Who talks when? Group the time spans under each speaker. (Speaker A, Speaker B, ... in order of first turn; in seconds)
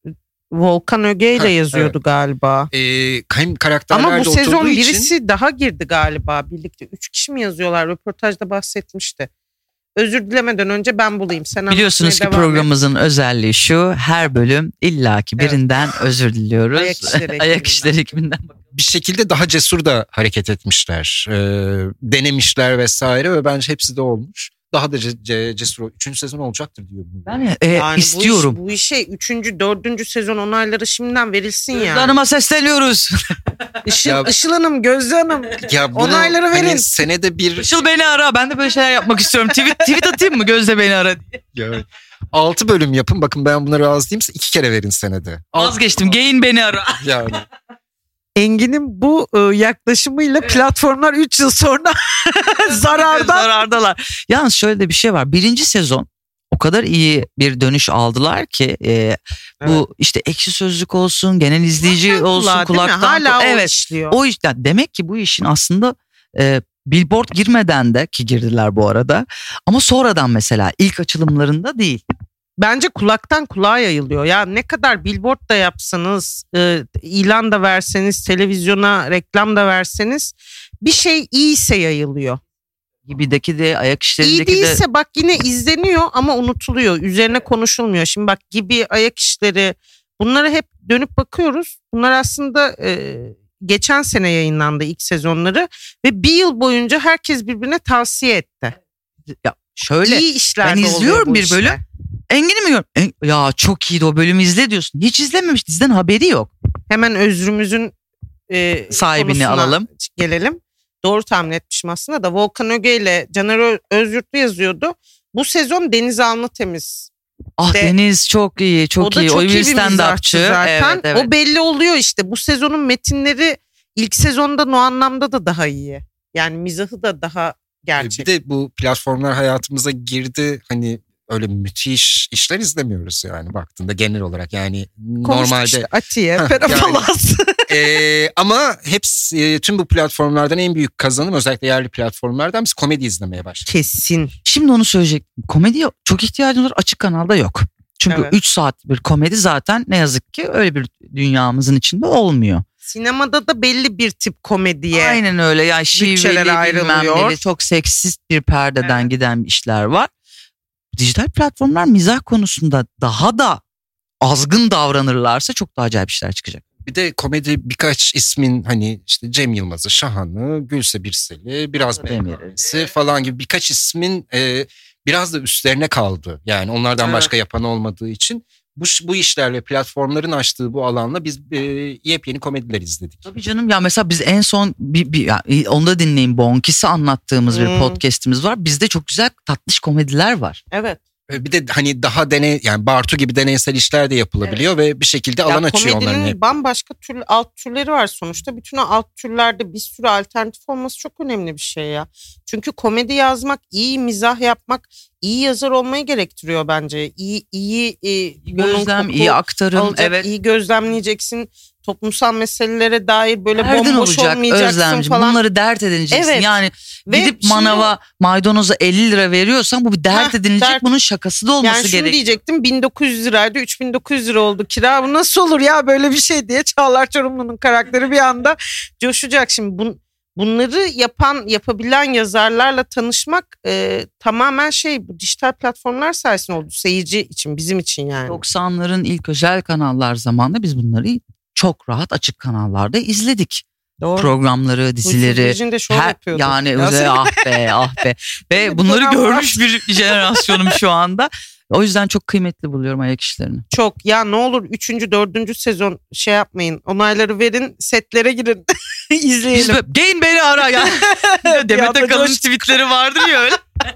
Speaker A: 0.5-2.7, 3.9-9.3, 9.9-12.7, 16.7-17.9, 27.7-32.2, 33.9-36.9, 48.4-53.5, 61.8-64.2, 72.6-82.4, 84.2-98.8, 100.0-101.8, 106.9-108.0, 108.5-117.1, 119.0-128.3, 135.2-137.7, 143.7-144.3, 148.1-148.3, 152.8-155.2, 155.9-157.4, 158.8-159.1, 177.0-177.3, 187.5-188.0, 190.7-191.0, 195.5-215.4, 216.1-217.9, 220.1-220.9, 221.6-238.4, 244.0-244.3, 245.0-247.5, 248.5-250.8, 253.7-259.8, 260.7-263.3
Speaker B: 1.4-1.9, 2.7-5.1, 18.7-27.4, 34.0-34.3, 35.6-37.7, 41.5-45.7, 47.0-47.4, 128.0-137.1, 137.7-143.7, 166.8-183.2, 191.3-196.4
Speaker C: 11.7-18.5, 27.3-28.6, 31.7-33.1, 37.6-41.4, 45.5-47.0, 52.9-72.0, 83.1-84.8, 99.4-106.5, 108.9-109.9, 117.6-121.3, 144.5-152.6, 154.9-160.1, 160.9-163.6, 164.2-166.6, 172.1-172.6, 183.2-190.6, 208.5-210.3, 213.6-222.2, 238.3-243.7, 244.2-253.7, 259.5-263.6